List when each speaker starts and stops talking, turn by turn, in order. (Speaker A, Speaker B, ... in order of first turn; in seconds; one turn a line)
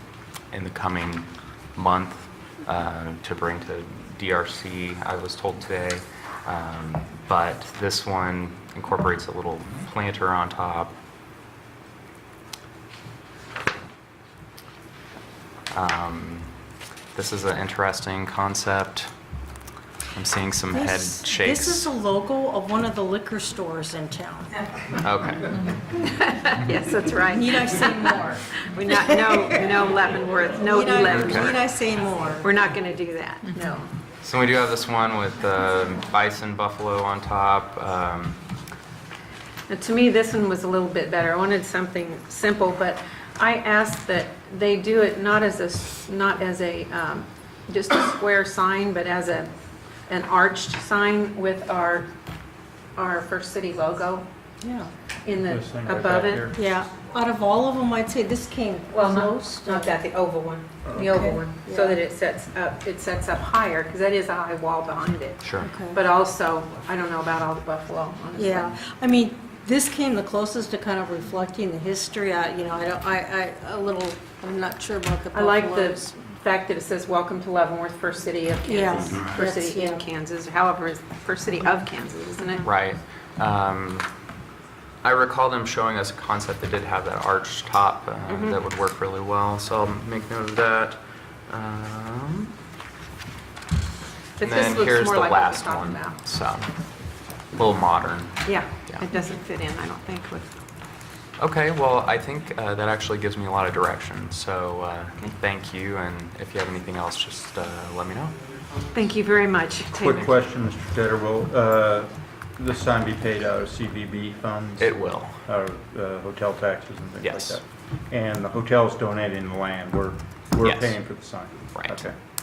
Speaker A: 0.5-10.9
Speaker A: 15.7-16.5
Speaker A: 17.1-19.1
Speaker A: 20.1-21.9
Speaker B: 20.7-24.6
Speaker A: 25.0-25.7
Speaker C: 25.9-31.6
Speaker B: 27.3-29.8
Speaker B: 30.7-32.5
Speaker A: 31.1-31.6
Speaker C: 32.4-33.9
Speaker A: 34.2-38.4
Speaker C: 39.7-49.5
Speaker C: 50.1-52.1
Speaker C: 53.0-54.3
Speaker B: 54.6-54.9
Speaker C: 55.2-56.5
Speaker D: 55.4-56.6
Speaker B: 56.5-60.0
Speaker C: 58.9-68.8
Speaker B: 60.9-62.0
Speaker A: 65.4-65.7
Speaker B: 65.6-66.0
Speaker B: 68.3-76.1
Speaker C: 75.3-82.7
Speaker B: 78.6-80.0
Speaker A: 82.6-84.1
Speaker A: 85.0-92.5
Speaker C: 88.3-88.6
Speaker C: 94.4-96.2
Speaker A: 94.4-96.7
Speaker A: 97.5-99.0
Speaker C: 98.4-100.5
Speaker A: 101.4-108.3
Speaker C: 108.9-110.3
Speaker D: 109.9-122.1
Speaker A: 114.8-115.4
Speaker A: 117.2-117.6
Speaker A: 120.6-121.0
Speaker A: 121.7-122.0